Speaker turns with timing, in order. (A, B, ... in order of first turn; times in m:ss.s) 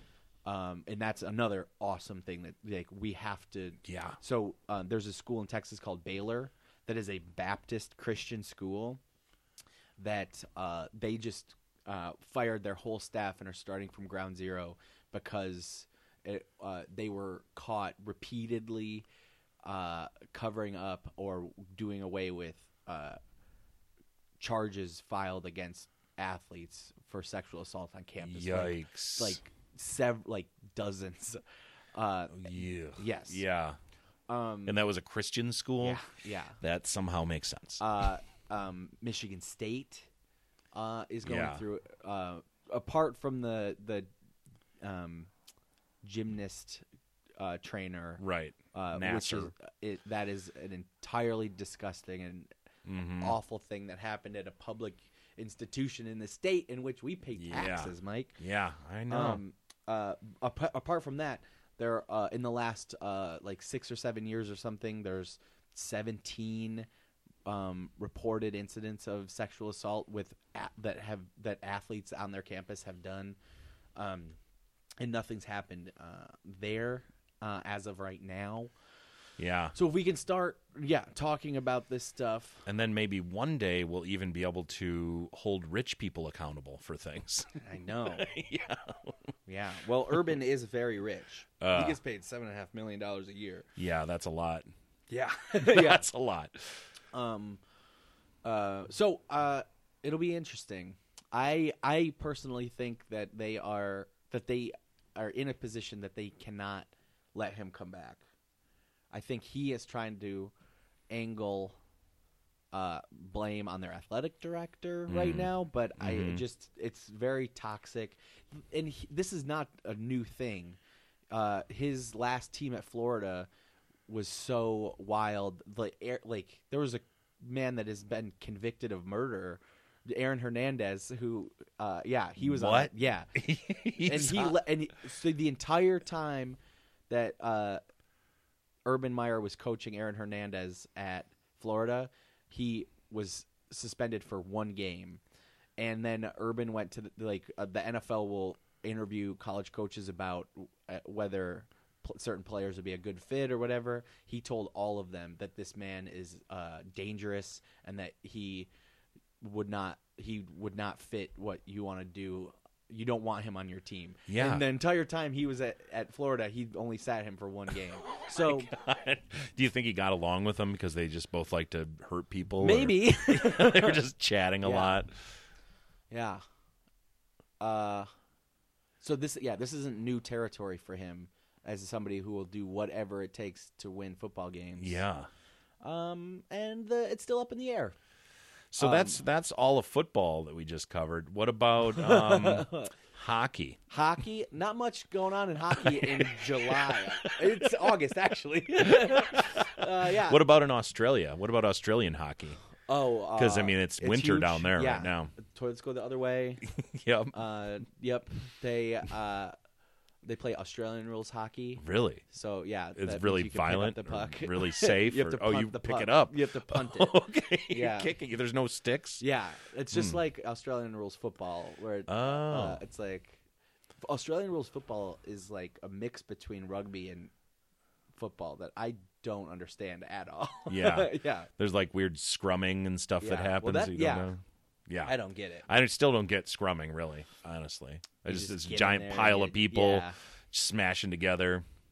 0:00.5-0:09.0 A
0:03.9-0:04.2 B
0:10.0-0:19.1 A
0:19.6-0:23.2 A
0:24.4-0:31.4 A
0:28.2-0:29.4 B
0:32.0-0:33.4 A
0:32.3-0:33.8 B
0:34.3-0:34.8 A
0:34.7-0:36.1 B
0:35.8-0:36.6 A
0:36.6-0:37.8 B
0:37.8-0:40.1 A
0:40.7-0:44.1 A
0:41.2-0:41.6 B
0:44.8-0:45.3 A
0:46.0-0:46.8 A
0:47.4-0:52.5 A
0:48.2-0:49.5 B
0:52.9-0:53.4 B
0:53.2-0:58.4 A
0:57.4-0:59.4 B
0:59.1-1:06.9 A
1:07.5-1:13.4 A
1:14.0-1:14.4 A
1:15.0-1:18.7 A
1:19.4-1:19.8 B
1:19.8-1:22.6 A
1:22.7-1:27.5 B
1:27.6-1:28.4 A
1:28.1-1:29.2 B
1:29.5-1:33.7 A
1:31.6-1:32.0 B
1:33.8-1:34.7 B
1:35.1-1:36.1 A
1:35.6-1:36.8 B
1:37.1-1:37.6 A
1:38.4-1:48.2 A
1:49.1-1:50.5 A
1:51.1-1:51.8 A
1:52.7-2:00.8 A
1:55.1-1:56.4 B
2:01.3-2:03.5 A
2:04.1-2:13.3 A
2:12.4-2:14.6 B
2:14.0-2:16.6 A
2:17.1-2:17.8 A
2:18.9-2:25.2 A
2:25.8-2:38.7 A
2:39.4-2:48.7 A
2:44.3-2:44.6 B
2:48.2-2:55.2 B
2:52.6-2:54.0 A
2:54.6-2:55.0 A
2:56.1-2:56.4 A
2:57.6-2:58.1 A
2:59.0-3:05.0 A
3:04.8-3:05.3 B
3:05.8-3:08.0 A
3:08.7-3:13.8 B
3:08.8-3:09.2 A
3:11.9-3:12.9 A
3:13.9-3:20.4 A
3:15.8-3:17.9 B
3:18.8-3:22.6 B
3:22.9-3:26.6 A
3:23.4-3:25.3 B
3:26.6-3:27.4 B
3:27.3-3:29.5 A
3:30.2-3:37.2 A
3:31.8-3:32.2 B
3:33.0-3:39.2 B
3:37.7-3:38.1 A
3:39.2-3:43.4 A
3:39.9-3:40.2 B
3:42.1-3:42.8 B
3:44.0-3:47.3 A
3:48.2-3:51.5 A
3:50.7-3:55.2 B
3:53.2-3:54.3 A
3:55.0-3:55.7 A
3:55.7-4:01.6 B
3:58.3-4:00.2 A